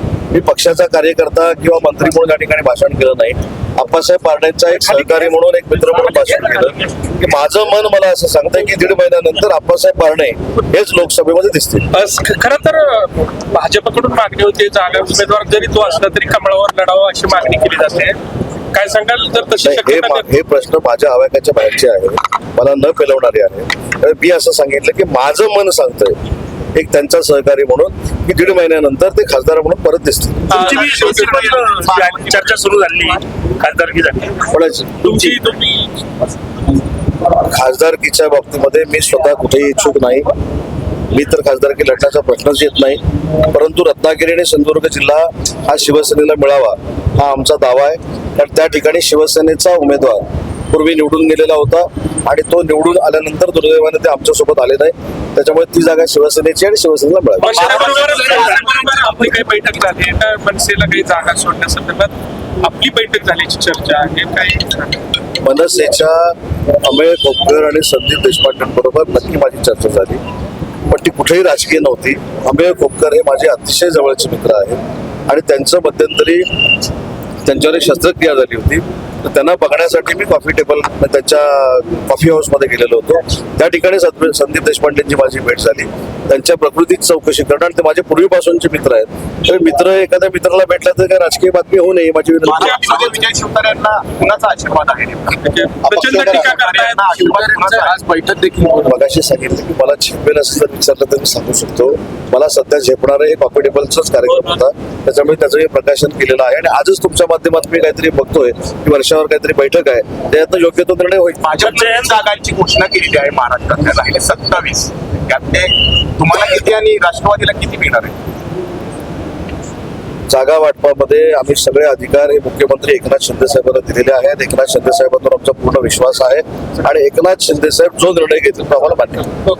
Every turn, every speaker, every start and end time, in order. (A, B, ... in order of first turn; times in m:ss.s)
0:00.3-0:11.9 A
0:11.9-0:18.2 B
0:18.7-0:20.3 B
0:19.6-0:26.2 A
0:26.7-0:30.7 A
0:30.5-0:31.9 B
0:30.5-0:32.5 C
0:30.6-0:34.4 D
0:34.5-0:35.4 A
0:35.0-0:35.9 B
0:37.4-0:40.3 A
0:41.1-0:57.8 A
0:57.4-1:05.0 B
0:57.5-0:58.4 D
0:57.6-0:58.6 E
1:05.4-1:10.2 A
1:10.9-1:16.5 A
1:17.4-1:33.1 A
1:32.4-1:35.4 C
1:32.5-1:33.1 B
1:35.4-1:37.2 B
1:35.8-1:36.5 A
1:36.0-1:38.0 C
1:37.0-1:39.0 E
1:38.8-1:51.5 A
1:51.4-1:58.1 C
1:51.7-1:52.1 D
2:00.3-2:09.4 A